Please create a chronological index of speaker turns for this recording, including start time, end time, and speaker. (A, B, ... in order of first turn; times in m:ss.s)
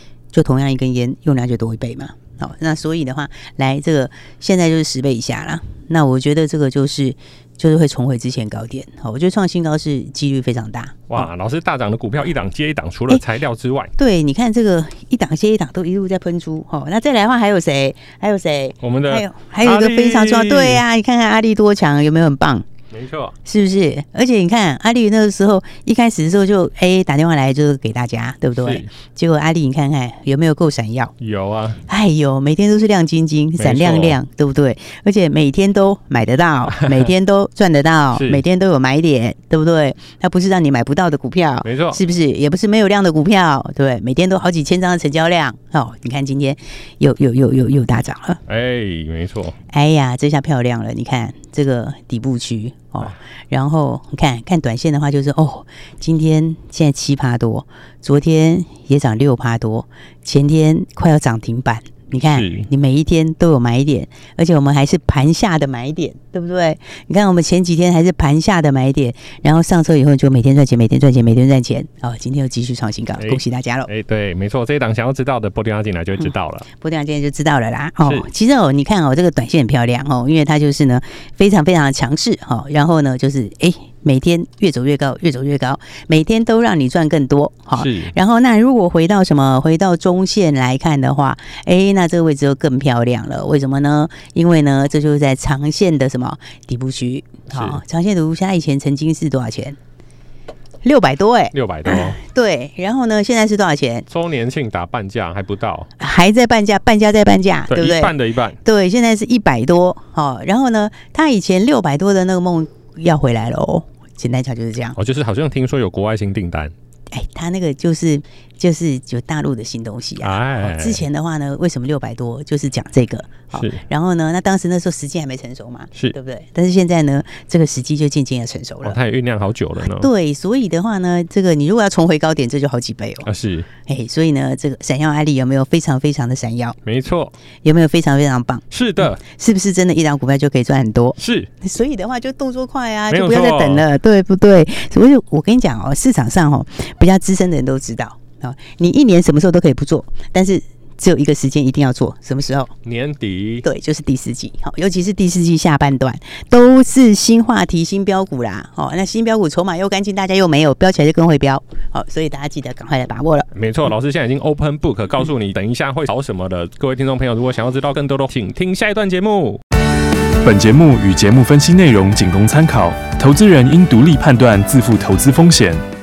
0:00.3-0:11.3 A
0:11.1-0:13.9 B
0:14.0-0:22.6 A
0:18.8-0:20.8 B
0:22.9-0:23.3 B
0:23.4-0:31.1 A
0:28.6-0:28.9 B
0:31.2-0:31.8 B
0:31.9-0:48.4 A
0:33.6-0:34.2 B
0:36.7-0:37.0 B
0:38.1-0:38.4 B
0:41.6-0:42.0 B
0:48.5-0:49.5 B
0:49.7-1:13.9 A
1:02.2-1:02.7 B
1:13.2-1:16.6 B
1:16.7-1:39.8 A
1:27.8-1:28.1 B
1:37.5-1:37.8 B
1:40.8-1:44.0 A
1:41.5-1:42.2 B
1:44.1-1:45.9 B
1:46.0-1:55.0 A
1:47.7-1:48.6 B
1:55.0-1:56.7 B
1:57.1-2:09.0 A
2:00.2-2:01.0 B
2:03.5-2:03.8 B
2:08.8-2:10.1 B
2:09.9-2:13.3 A
2:13.2-2:13.7 B
2:13.8-2:16.8 A
2:16.8-2:17.3 B
2:17.6-2:18.6 A
2:18.7-2:19.2 B
2:19.2-2:32.7 A
2:21.2-2:21.5 B
2:23.1-2:23.8 B
2:32.8-2:33.6 B
2:33.6-2:43.5 A
2:43.5-2:49.6 B
2:50.4-2:55.8 C